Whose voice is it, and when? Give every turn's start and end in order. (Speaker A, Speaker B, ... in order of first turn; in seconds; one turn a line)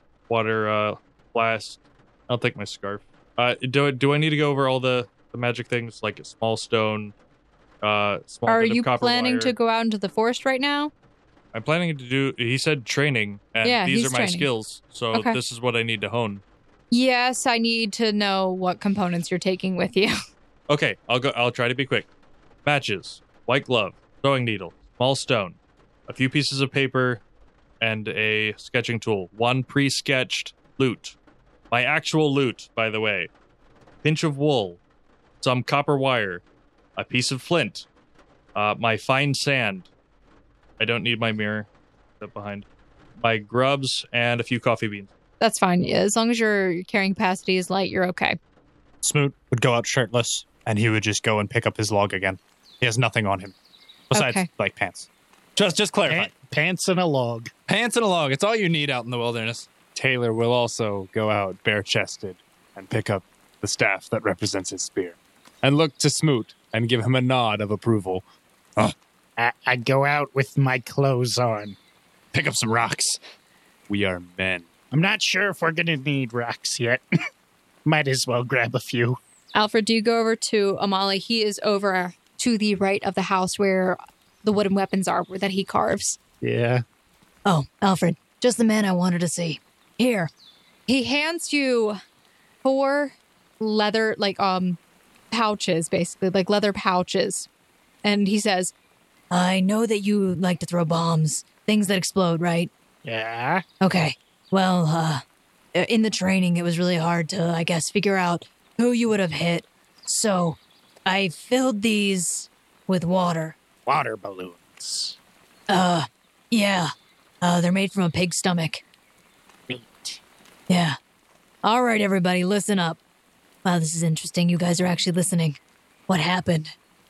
Speaker A: 0.3-7.1
Speaker A: 7.8-9.5
Speaker B: 8.4-10.9
Speaker A: 11.5-16.4
Speaker B: 13.6-14.5
Speaker B: 15.1-15.4
Speaker B: 16.9-20.1
Speaker A: 20.7-22.1
Speaker A: 22.6-25.6
Speaker A: 26.1-27.2
Speaker A: 27.8-31.1
Speaker A: 31.7-33.3
Speaker A: 34.0-34.8
Speaker A: 35.4-36.4
Speaker A: 37.0-37.9
Speaker A: 38.5-39.9
Speaker A: 40.8-41.7
Speaker A: 42.2-42.7
Speaker A: 43.2-45.1
Speaker B: 45.4-48.4
Speaker C: 49.0-53.5
Speaker C: 54.1-56.3
Speaker B: 54.1-54.5
Speaker D: 56.1-57.5
Speaker C: 57.7-59.7
Speaker E: 59.9-68.2
Speaker D: 69.4-71.8
Speaker C: 72.3-73.2
Speaker E: 73.9-74.7
Speaker D: 74.9-77.0
Speaker D: 77.8-79.2
Speaker B: 79.5-86.2
Speaker D: 86.4-86.8
Speaker F: 87.4-90.3
Speaker B: 90.9-92.0
Speaker B: 92.6-94.8
Speaker B: 95.3-97.5
Speaker B: 98.0-98.7
Speaker F: 99.3-102.7
Speaker D: 103.0-103.6
Speaker F: 103.8-105.2
Speaker F: 105.7-113.6
Speaker D: 113.8-115.2
Speaker F: 115.7-116.9
Speaker F: 117.4-118.8
Speaker D: 119.7-120.2
Speaker F: 120.7-121.0
Speaker F: 121.6-123.0
Speaker F: 123.6-126.7